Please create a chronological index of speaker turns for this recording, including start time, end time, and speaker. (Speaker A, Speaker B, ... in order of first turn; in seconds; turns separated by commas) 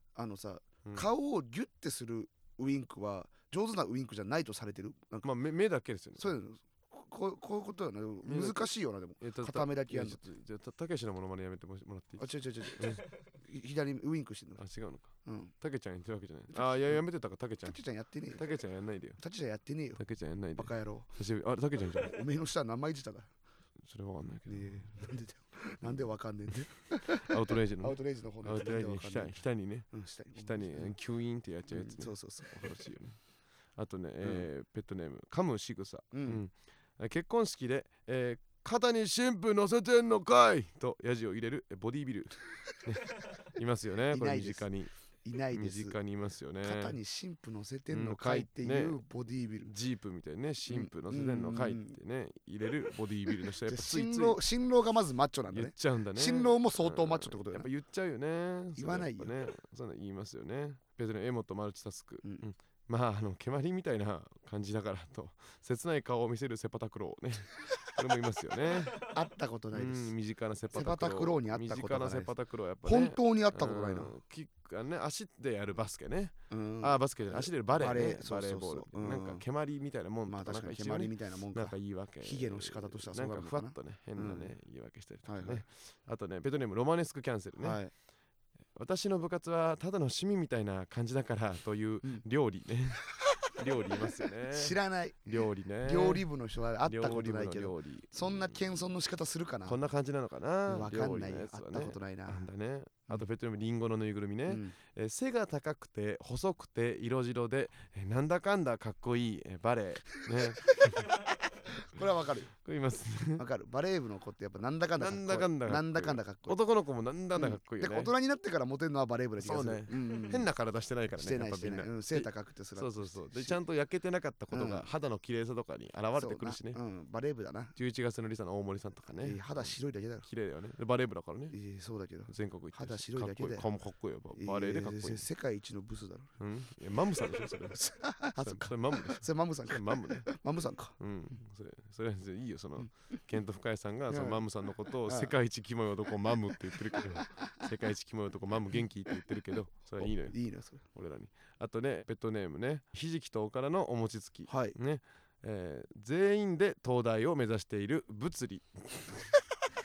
Speaker A: 0.1-5.3, Speaker B: 0.8-1.1, Speaker B: 5.2-6.3, Speaker A: 6.2-10.2, Speaker B: 8.2-13.1, Speaker A: 12.2-14.6, Speaker B: 14.6-17.8, Speaker A: 15.2-15.5, Speaker A: 16.5-17.0, Speaker A: 17.6-18.4, Speaker B: 18.3-19.2, Speaker A: 19.2-20.0, Speaker B: 20.0-22.2, Speaker A: 20.6-21.1, Speaker A: 21.9-23.3, Speaker B: 23.9-25.0, Speaker A: 24.5-29.4, Speaker B: 27.0-29.9, Speaker A: 29.9-30.9, Speaker B: 30.4-33.2, Speaker A: 31.7-32.9, Speaker B: 33.8-44.9, Speaker A: 34.2-34.5, Speaker A: 36.1-36.4, Speaker A: 44.1-44.7, Speaker A: 45.2-46.0, Speaker B: 45.5-47.0, Speaker A: 46.6-49.7, Speaker B: 47.9-49.0, Speaker B: 49.6-54.4, Speaker A: 50.7-52.0, Speaker A: 53.7-57.7, Speaker B: 55.5-69.1, Speaker A: 58.8-59.3, Speaker A: 69.0-70.1, Speaker B: 69.7-87.8, Speaker A: 70.7-74.1, Speaker A: 76.5-79.4, Speaker A: 80.3-84.5, Speaker A: 85.3-85.6, Speaker A: 87.6-87.9, Speaker B: 88.8-96.3, Speaker A: 93.2-93.5, Speaker A: 94.5-99.8, Speaker B: 96.8-98.6, Speaker B: 99.7-111.2, Speaker A: 100.7-102.5, Speaker A: 104.5-104.7, Speaker A: 111.7-112.5, Speaker B: 112.6-113.5, Speaker A: 113.4-116.6, Speaker B: 115.0-118.1, Speaker A: 117.4-120.5, Speaker B: 119.4-126.8, Speaker A: 121.2-123.6, Speaker A: 124.5-124.9, Speaker A: 126.2-127.7, Speaker B: 127.8-131.6, Speaker A: 129.2-130.3, Speaker A: 131.5-133.6, Speaker B: 132.3-135.3, Speaker A: 134.4-136.3, Speaker B: 136.4-137.8, Speaker A: 137.7-140.9, Speaker B: 138.4-140.3, Speaker B: 141.0-150.4, Speaker A: 144.1-144.4, Speaker A: 145.1-145.3, Speaker A: 146.8-147.5, Speaker A: 150.0-150.8, Speaker B: 150.9-159.4, Speaker A: 154.5-154.8